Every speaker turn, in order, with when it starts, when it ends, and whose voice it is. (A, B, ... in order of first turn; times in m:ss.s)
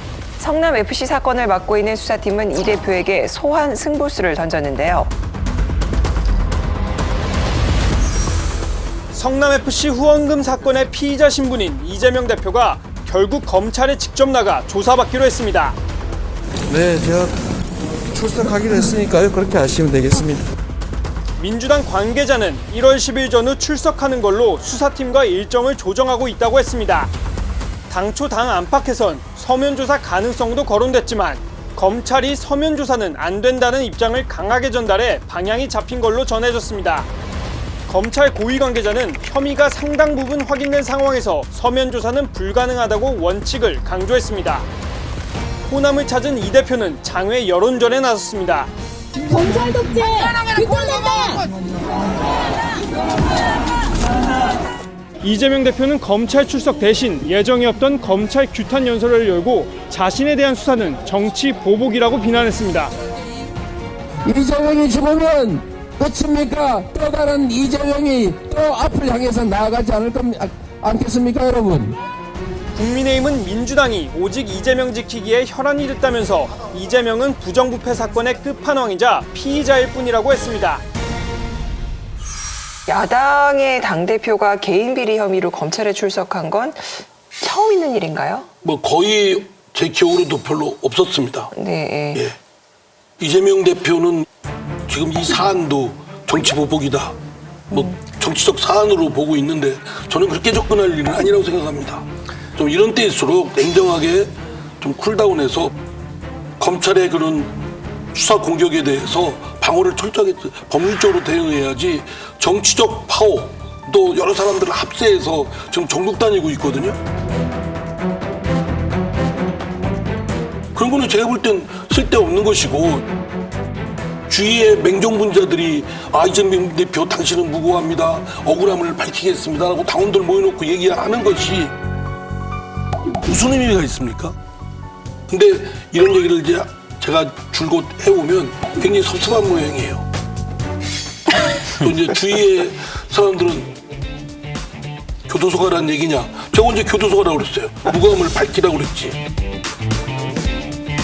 0:00.4-0:05.1 A
0:09.1-0:15.8 B
0:16.8-0:17.3 C
0:18.2-0:20.3 C
0:21.4-0:27.1 B
0:27.9-0:37.1 B
0:37.9-0:44.6 B
0:45.7-0:48.7 B
0:49.3-0:51.4 D
0:55.2-1:02.9 B
1:04.2-1:12.0 E
1:12.8-1:20.8 B
1:22.9-1:28.4 A
1:28.6-1:31.5 F
1:31.5-1:32.2 A
1:33.2-1:34.2 F
1:34.9-1:37.1 F
1:37.7-1:42.0 F
1:42.6-1:45.7 F
1:46.6-1:47.5 F
1:48.1-1:57.0 F
2:00.8-2:03.0 F
2:04.3-2:11.7 F
2:13.2-2:14.3 F
2:15.3-2:20.0 F
2:21.3-2:23.7 F
2:25.3-2:29.2 F